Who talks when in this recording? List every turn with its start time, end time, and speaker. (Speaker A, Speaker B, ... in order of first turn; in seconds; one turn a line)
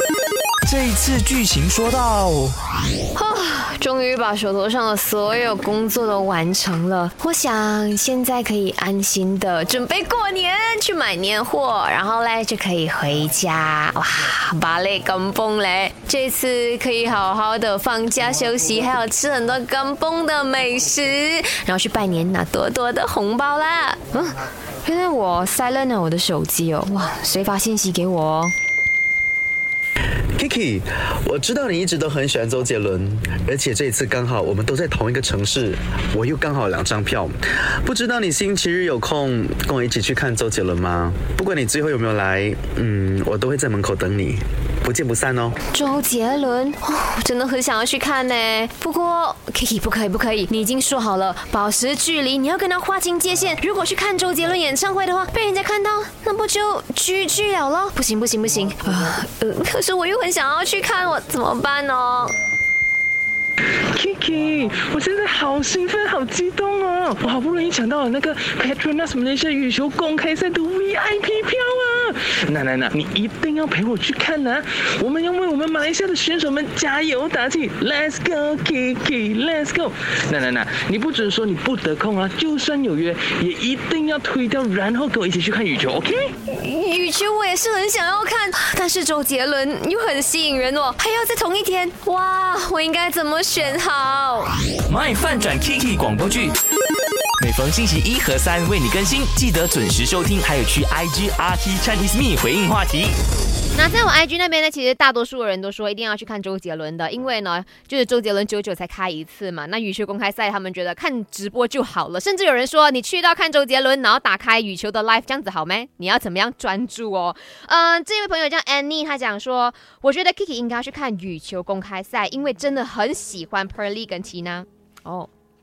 Speaker A: 0.6-2.5
Speaker B: 3.1-28.5
Speaker C: 30.4-45.6
Speaker B: 45.7-62.4
Speaker D: 63.9-86.3
Speaker B: 86.4-94.5
Speaker A: 94.9-96.5
Speaker A: 97.4-103.1
Speaker B: 103.7-125.3